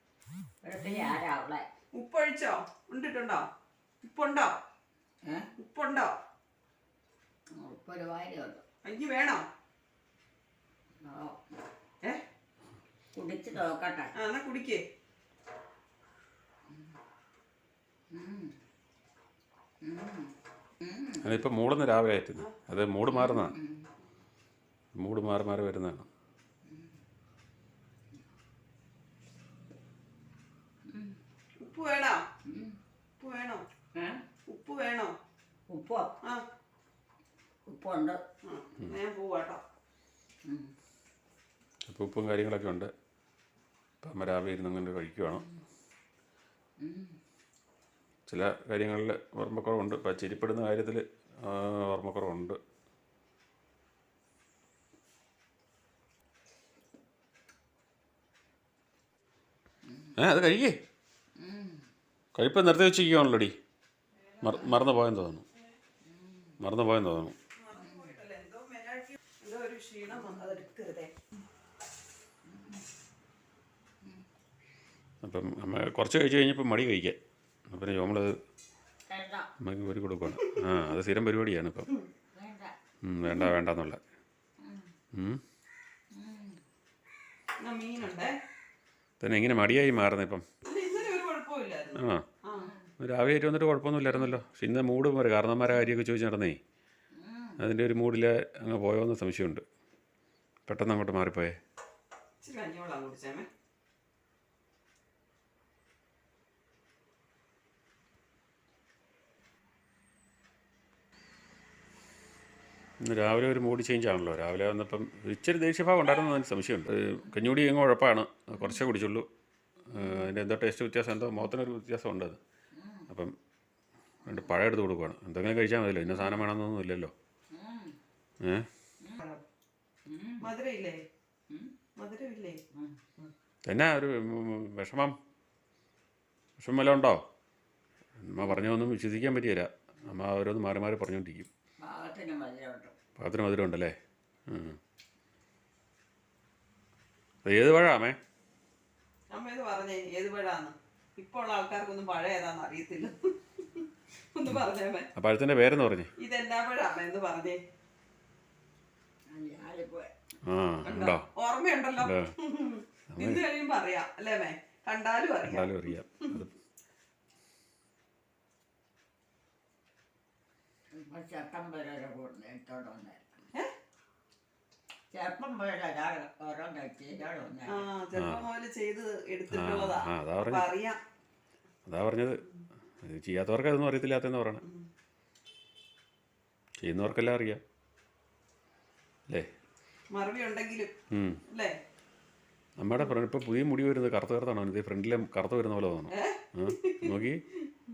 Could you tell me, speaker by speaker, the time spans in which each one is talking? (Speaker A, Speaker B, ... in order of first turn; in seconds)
Speaker A: 0.6-1.7, 7.5-8.6, 11.0-11.4, 13.1-14.1, 18.1-18.5, 19.8-21.2, 23.1-23.8, 30.9-31.1, 32.4-32.8, 33.9-34.2, 35.7-36.1, 37.6-38.2, 40.4-40.7, 46.8-47.1, 61.4-61.8, 66.0-66.5, 72.5-72.8, 79.1-79.5, 82.3-82.7, 86.1-86.6, 92.6-92.9, 97.2-97.6, 122.7-123.1, 127.5-128.0, 130.1-130.5, 132.7-133.1, 141.8-142.9, 159.3-160.1, 170.9-173.4, 175.1-177.9
Speaker B: 1.9-3.5, 4.0-4.6, 5.6-6.2, 8.8-9.4, 14.1-14.8, 31.6-32.2, 33.2-33.6, 34.5-35.1, 38.4-39.6, 64.2-64.8, 67.6-71.1, 87.6-88.3, 90.6-92.7, 102.4-103.5, 130.4-131.0, 132.0-132.6, 149.3-155.1, 156.2-157.6, 160.8-166.4, 177.7-181.0, 190.1-190.9, 191.5-191.8, 196.1-197.1
Speaker C: 21.2-23.5, 24.9-26.1, 41.9-42.9, 44.0-45.4, 48.3-52.6, 60.2-60.8, 62.3-63.5, 64.4-65.4, 66.6-67.3, 75.2-77.2, 77.7-78.3, 79.6-81.9, 83.0-84.0, 85.1-85.4, 89.2-90.4, 91.9-92.2, 93.0-96.6, 97.6-99.6, 100.7-101.6, 113.0-119.3, 119.9-122.4, 123.1-123.3, 124.2-127.1, 128.4-128.7, 133.7-135.2, 136.6-137.2, 138.2-141.5, 143.2-143.9, 144.5-144.8, 147.4-148.2, 155.2-156.1, 160.4-161.3, 162.0-162.3, 163.1-163.4, 165.4-166.5, 178.1-178.4, 179.5-180.7, 181.8-182.4, 183.0-184.6, 186.8-187.6, 191.1-191.4, 192.8-197.4